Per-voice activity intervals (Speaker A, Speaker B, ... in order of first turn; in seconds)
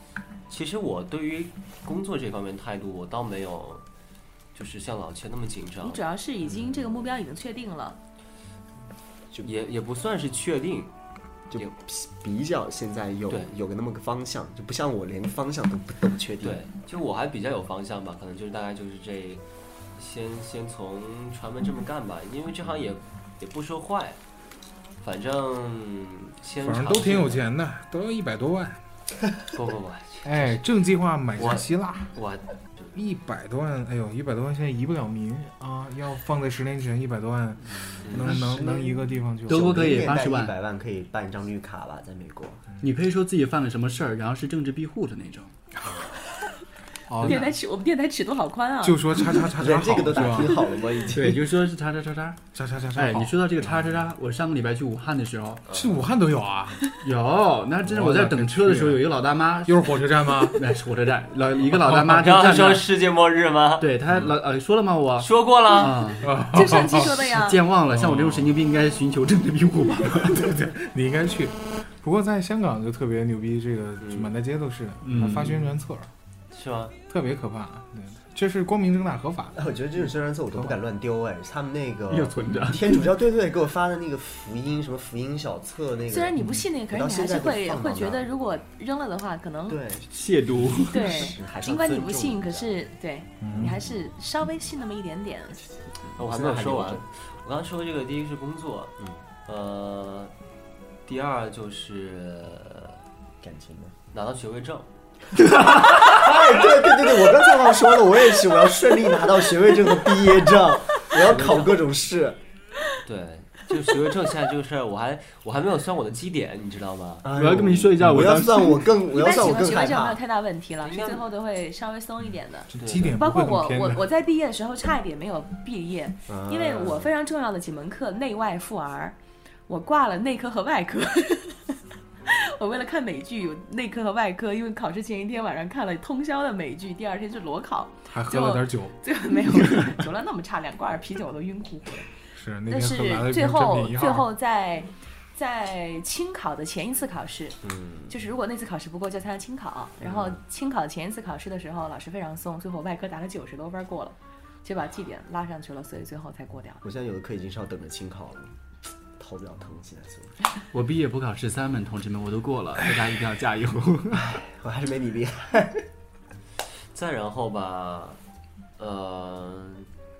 Speaker A: 0.5-3.8, 4.5-6.0, 9.4-10.9, 16.4-19.4, 20.0-24.2, 25.0-27.4, 29.5-30.6, 31.4-33.0, 38.0-38.4, 55.7-56.0, 61.9-63.9, 65.2-66.2, 74.0-74.3, 76.5-76.9, 96.2-100.3, 101.0-103.0, 104.1-104.9, 111.2-111.8, 113.0-117.2, 120.8-121.2, 122.8-123.2, 166.9-168.2, 168.8-169.9
Speaker B: 5.8-8.0, 47.2-49.3, 66.4-67.6, 86.1-89.8, 90.8-95.7, 119.1-142.1, 142.7-156.8
Speaker C: 11.5-16.6, 38.1-42.7, 49.5-51.5, 79.5-88.2, 89.7-92.7, 96.1-97.0, 103.4-103.9, 105.3-112.4, 117.2-120.2, 126.3-127.1, 147.6-148.1, 150.0-150.4, 156.8-158.5, 159.2-160.4, 164.1-165.8
Speaker D: 26.6-28.8, 30.2-32.1, 32.9-39.9, 47.1-47.5, 48.8-50.8, 52.5-54.0, 55.7-56.8, 57.9-59.1, 59.6-60.6, 66.2-67.2, 67.9-68.5, 70.2-76.1, 77.1-79.7, 86.4-86.6, 93.4-93.8, 122.7-124.0, 138.1-138.9, 142.3-144.3
Speaker E: 38.3-38.6, 39.5-40.5, 42.8-45.5, 51.1-52.4, 52.9-55.6, 57.0-62.8, 63.8-70.5, 75.0-75.7, 82.1-83.1, 90.1-91.2, 117.3-118.9, 160.7-164.3